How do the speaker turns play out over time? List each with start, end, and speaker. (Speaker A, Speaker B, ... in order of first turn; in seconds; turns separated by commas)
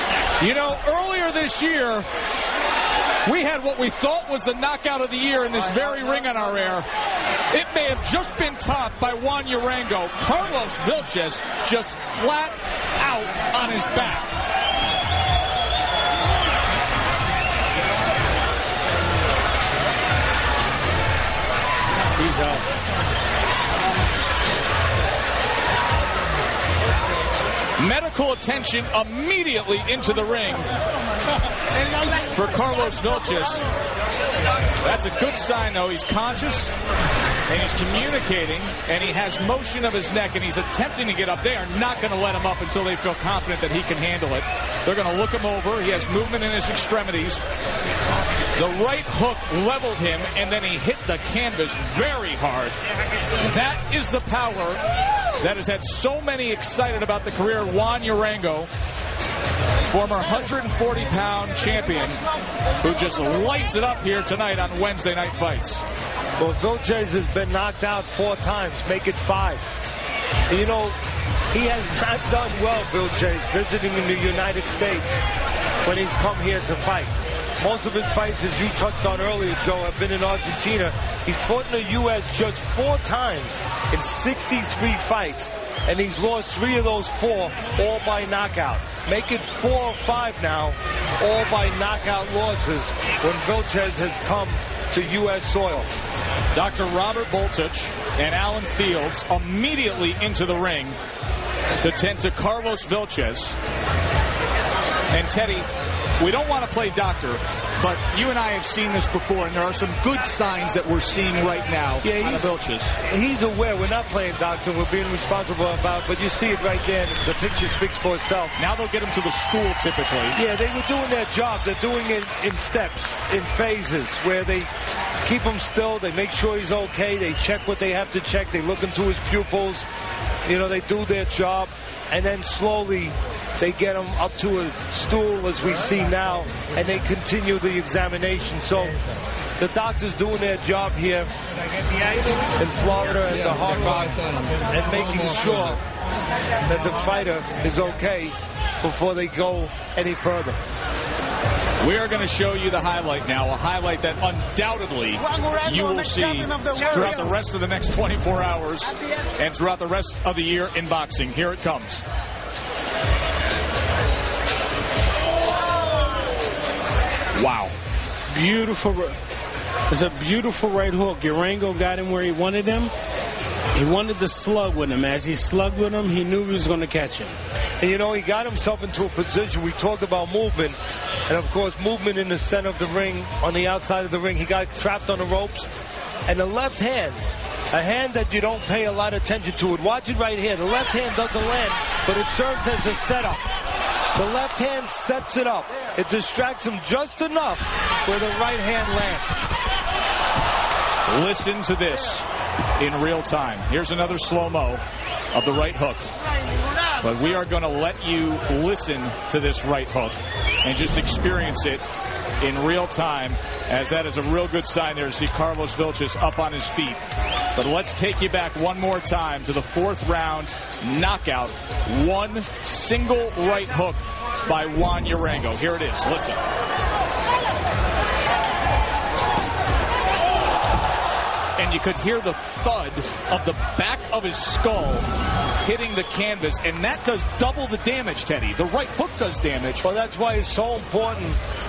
Speaker A: 0.4-2.1, Speaker A: 3.2-6.8, Speaker A: 7.5-14.3, Speaker B: 22.2-22.7, Speaker A: 27.8-30.7, Speaker A: 32.2-33.6, Speaker A: 34.8-36.7, Speaker A: 37.5-47.4, Speaker A: 48.5-52.8, Speaker A: 53.4-54.8, Speaker A: 55.4-58.7, Speaker A: 59.9-62.2, Speaker A: 62.8-65.8, Speaker C: 66.4-69.7, Speaker C: 70.5-71.0, Speaker C: 71.5-75.2, Speaker C: 75.8-95.9, Speaker A: 96.5-101.0, Speaker A: 101.8-103.6, Speaker A: 105.1-105.7, Speaker A: 106.2-113.0, Speaker C: 112.0-118.5, Speaker A: 118.6-120.4, Speaker C: 120.3-124.7, Speaker C: 125.2-129.8, Speaker C: 130.4-139.0, Speaker C: 139.6-141.3, Speaker C: 142.6-145.8, Speaker C: 146.6-150.6, Speaker A: 151.8-162.0, Speaker A: 167.3-167.7, Speaker B: 168.3-169.2, Speaker B: 169.9-172.9, Speaker B: 173.7-177.4, Speaker C: 177.8-180.8, Speaker C: 181.3-185.7, Speaker C: 186.3-187.2, Speaker C: 187.7-193.4, Speaker C: 194.1-199.4, Speaker A: 201.1-202.3, Speaker A: 202.8-206.1, Speaker A: 206.9-211.8, Speaker A: 212.4-217.0, Speaker A: 217.5-226.4, Speaker A: 231.6-235.1, Speaker A: 235.6-239.8, Speaker C: 239.8-241.4